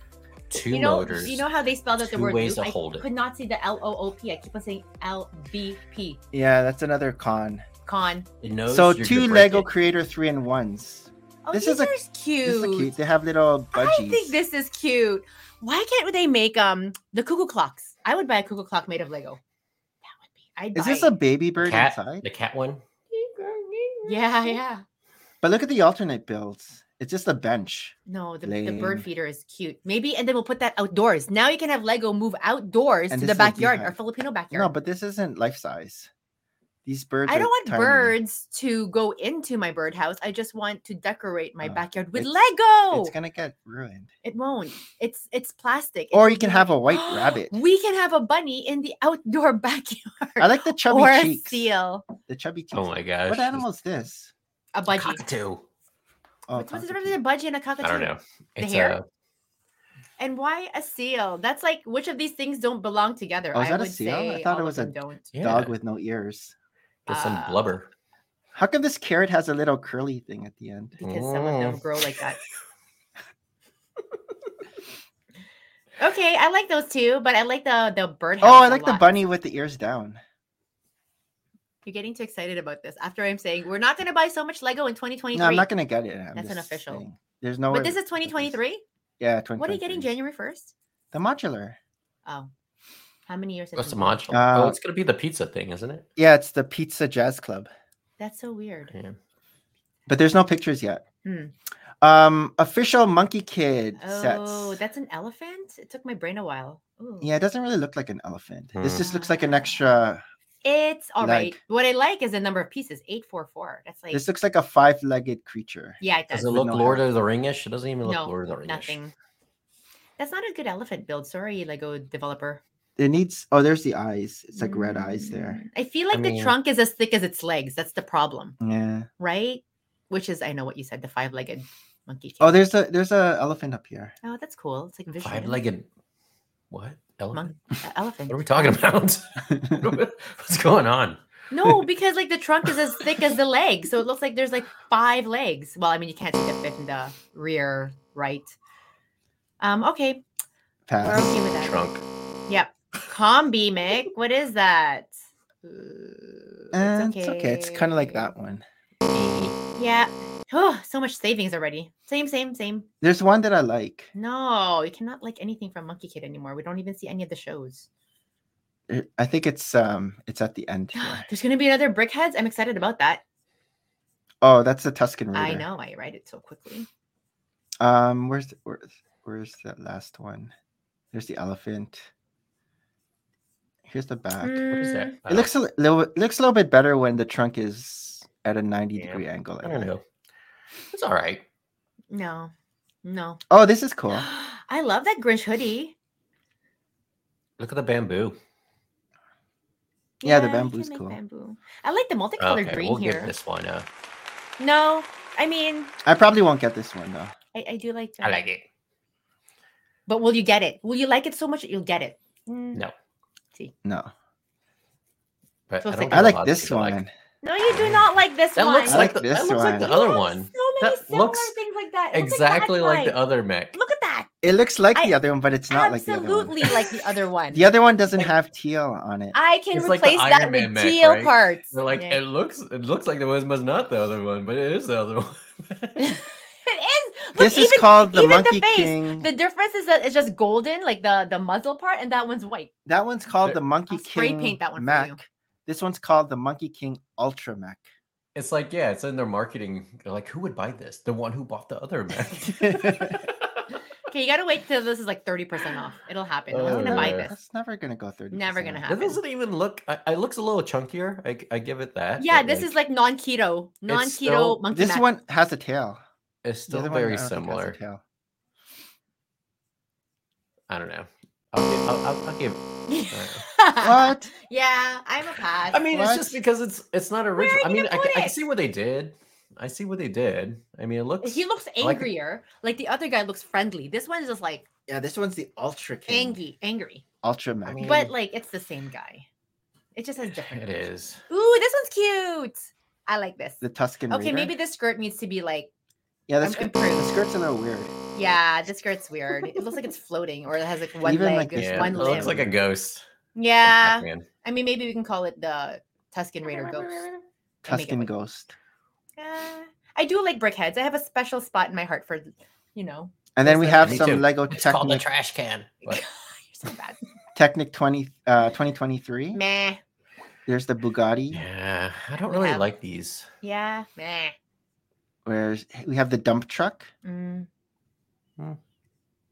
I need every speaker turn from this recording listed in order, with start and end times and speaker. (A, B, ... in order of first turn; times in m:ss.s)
0:00.5-0:01.5 A
0:00.6-0:06.2 B
0:02.0-0:03.1 A
0:06.3-0:07.7 C
0:07.9-0:08.3 B
0:08.4-0:09.7 A
0:08.7-0:14.4 C
0:11.5-0:12.9 B
0:13.7-0:19.4 B
0:20.2-0:21.1 B
0:20.7-0:22.2 C
0:21.6-0:22.8 A
0:23.1-0:24.0 C
0:24.0-0:24.8 B
0:25.4-0:29.1 C
0:28.1-0:34.7 B
0:33.1-0:34.0 C
0:34.5-0:36.1 C
0:36.8-0:38.2 C
0:37.3-0:43.1 B
0:41.6-0:42.3 C
0:42.9-0:44.1 C
0:44.2-0:52.1 B
0:46.1-0:47.6 C
0:50.4-0:51.7 C
0:52.2-0:54.3 C
0:52.7-0:53.6 A
0:54.7-0:55.2 B
0:54.9-0:55.6 A
0:56.5-0:57.2 C
0:56.5-0:59.0 B
0:57.8-0:59.1 A
1:00.2-1:05.3 B
1:03.5-1:06.6 C
1:05.3-1:05.8 A
1:07.1-1:07.6 B
1:07.1-1:07.9 A
1:08.6-1:11.0 C
1:11.0-1:12.4 B
1:11.0-1:11.8 A
1:16.0-1:19.2 B
1:18.4-1:20.2 C
1:21.8-1:25.7 B
1:25.3-1:28.6 C
1:26.4-1:27.0 B
1:27.7-1:28.8 B
1:29.2-1:30.1 C
1:29.6-1:30.7 B
1:31.1-1:31.8 C
1:32.2-1:32.5 B
1:33.3-1:34.2 B
1:33.8-1:36.1 A
1:34.3-1:34.8 C
1:36.2-1:37.7 C
1:38.2-1:38.9 B
1:38.9-1:39.2 A
1:40.1-1:41.0 C
1:41.2-1:41.5 B
1:42.0-1:44.8 C
1:44.0-1:47.3 B
1:47.2-1:50.2 C
1:48.8-1:49.0 A
1:48.9-1:49.8 B
1:50.6-1:54.2 B
1:51.2-1:51.6 C
1:54.1-1:56.0 C
1:56.0-1:56.6 B
1:56.3-1:59.0 A
1:56.5-1:57.0 C
1:58.0-1:59.1 B
2:00.2-2:02.6 B
2:03.0-2:05.6 C
2:04.6-2:08.6 B
2:06.1-2:06.6 A
2:08.6-2:09.1 C
2:09.2-2:12.6 B
2:12.4-2:14.1 C
2:14.2-2:15.6 B
2:15.2-2:15.9 A
2:16.7-2:17.5 A
2:17.3-2:18.8 B
2:18.3-2:21.2 A
2:21.5-2:28.6 B
2:29.6-2:30.2 B
2:30.9-2:31.4 C
2:31.0-2:31.8 B
2:31.1-2:32.0 A
2:32.5-2:38.3 B
2:36.7-2:38.6 C
2:39.1-2:39.6 A
2:39.7-2:42.9 B
2:43.0-2:44.1 C
2:44.2-2:47.9 B
2:48.9-2:51.3 C
2:51.0-2:53.2 B
2:54.4-2:55.6 C
2:55.3-2:56.9 B
2:57.8-3:00.5 C
3:01.1-3:02.1 C
3:03.9-3:04.7 C
3:04.4-3:05.2 B
3:04.7-3:05.5 A
3:05.3-3:09.9 C
3:09.0-3:10.0 A
3:10.9-3:11.4 A
3:12.1-3:12.5 B
3:13.0-3:13.4 B
3:13.5-3:14.3 C
3:14.1-3:16.0 B
3:17.6-3:18.4 A
3:20.2-3:23.3 B
3:20.2-3:21.2 C
3:22.4-3:23.9 A
3:24.6-3:25.9 B
3:26.0-3:27.3 C
3:27.5-3:28.5 B
3:28.2-3:28.6 A
3:30.1-3:32.8 B
3:33.8-3:34.1 C
3:35.7-3:37.0 A
3:35.8-3:36.3 B
3:36.1-3:37.1 C
3:37.4-3:39.1 B
3:37.7-3:41.5 A
3:38.9-3:40.0 C
3:39.7-3:43.2 B
3:42.1-3:43.8 A
3:43.7-3:44.3 B
3:44.4-3:46.7 C
3:45.7-3:47.7 B
3:47.5-3:49.4 C
3:49.3-3:52.2 B
3:49.7-3:56.1 A
3:56.0-4:02.7 B
3:57.4-3:59.3 C
4:02.9-4:07.8 C
4:03.9-4:05.2 B
4:08.4-4:13.4 A
4:12.6-4:13.2 C
4:14.1-4:17.4 B
4:16.5-4:17.3 A
4:16.7-4:18.8 C
4:18.3-4:19.2 B
4:18.9-4:22.7 A
4:22.2-4:25.1 B
4:23.9-4:24.6 A
4:24.7-4:26.0 C
4:26.4-4:27.8 A
4:26.7-4:28.0 C
4:30.7-4:33.4 A
4:32.9-4:35.8 B
4:33.8-4:34.3 C
4:35.7-4:42.1 A
4:35.9-4:36.4 C
4:37.4-4:38.5 B
4:41.2-4:44.7 B
4:44.9-4:46.4 C
4:46.1-4:47.0 B
4:47.2-4:48.1 C
4:47.6-4:48.1 A
4:47.8-4:49.3 B
4:50.0-4:55.7 B
4:50.4-4:51.2 A
4:53.6-4:54.6 C
4:56.3-4:57.9 C
4:56.4-4:57.1 B
4:58.2-5:02.4 B
5:01.0-5:02.6 C
5:01.6-5:03.0 A
5:03.4-5:07.1 B
5:03.6-5:04.3 A
5:07.6-5:08.6 C
5:07.7-5:08.1 B
5:09.2-5:14.1 B
5:13.4-5:15.1 C
5:13.8-5:16.0 A
5:15.8-5:17.0 B
5:17.4-5:19.4 C
5:19.3-5:19.8 B
5:20.5-5:21.4 C
5:21.3-5:23.3 A
5:22.3-5:22.7 B
5:23.4-5:24.3 B
5:25.2-5:26.9 C
5:27.0-5:27.5 B